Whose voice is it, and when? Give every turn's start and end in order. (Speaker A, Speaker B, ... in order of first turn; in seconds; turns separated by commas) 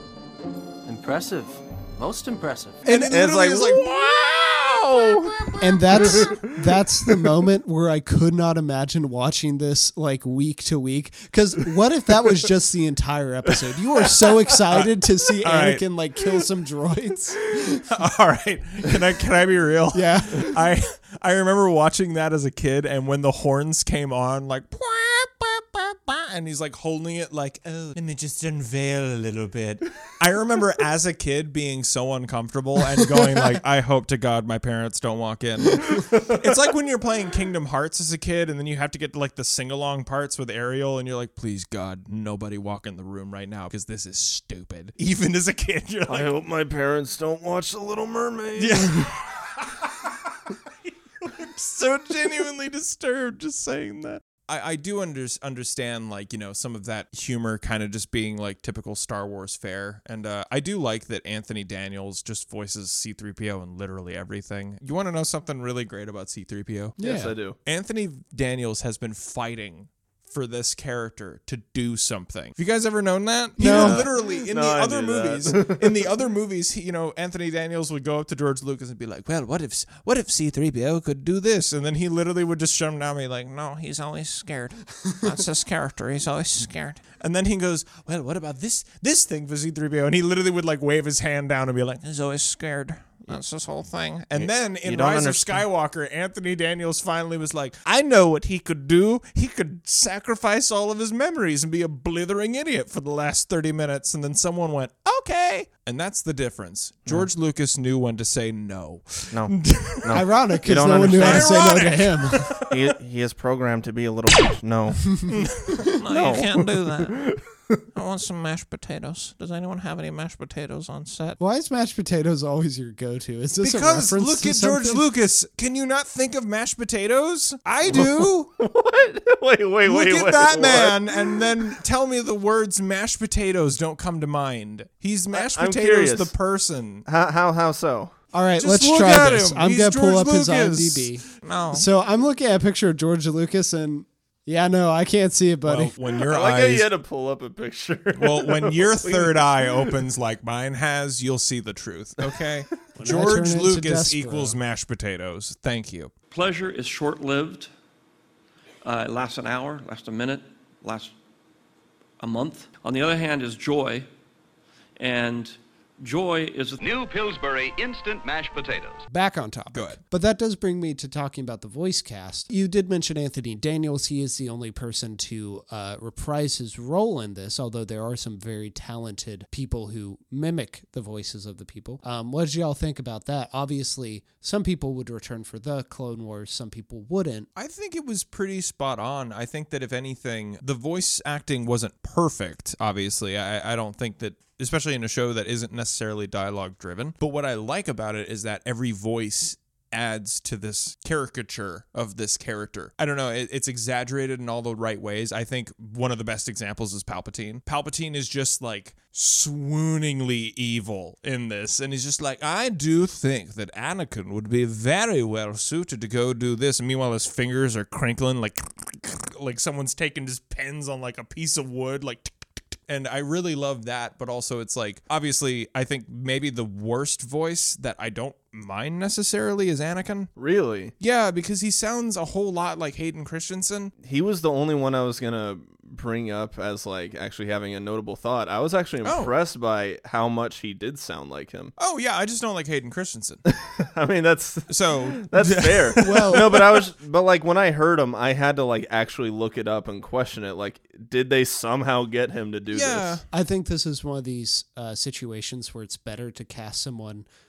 Speaker A: 0.8-2.8, Speaker B: 2.9-4.4, Speaker C: 2.9-3.2, Speaker D: 3.1-5.3, Speaker B: 4.9-6.4, Speaker C: 5.6-17.8, Speaker D: 6.1-6.4, Speaker B: 14.5-14.9, Speaker B: 15.4-15.8, Speaker B: 17.8-46.3, Speaker C: 19.9-20.5, Speaker D: 46.1-49.1, Speaker B: 48.6-50.5, Speaker B: 51.2-67.0, Speaker C: 67.0-67.3, Speaker D: 67.0-67.6, Speaker B: 67.6-110.3, Speaker C: 73.6-74.0, Speaker D: 73.6-76.0, Speaker D: 94.3-95.6, Speaker D: 109.3-111.8, Speaker C: 110.1-112.5, Speaker B: 111.2-112.7, Speaker D: 112.6-115.3, Speaker B: 115.3-117.3, Speaker D: 116.1-117.3, Speaker B: 117.9-121.4, Speaker C: 121.4-125.0, Speaker B: 123.6-128.5, Speaker D: 127.9-131.7, Speaker B: 129.8-137.1, Speaker D: 135.3-136.3, Speaker D: 137.0-138.1, Speaker C: 138.3-145.9, Speaker B: 138.6-141.8, Speaker B: 145.6-146.9, Speaker D: 146.2-149.9, Speaker B: 148.1-156.1, Speaker C: 153.0-154.6, Speaker E: 156.3-157.7, Speaker E: 158.8-161.1, Speaker E: 162.2-164.1, Speaker E: 165.0-166.8, Speaker F: 166.8-169.0, Speaker C: 169.1-187.5, Speaker B: 169.7-170.0, Speaker B: 187.6-222.3, Speaker B: 222.9-230.3, Speaker D: 230.3-230.9, Speaker B: 231.0-233.9, Speaker D: 234.0-241.7, Speaker B: 239.0-239.3, Speaker B: 241.8-243.4, Speaker D: 243.5-253.2, Speaker B: 244.7-246.4, Speaker C: 246.0-246.8, Speaker B: 252.7-253.2, Speaker C: 253.3-257.2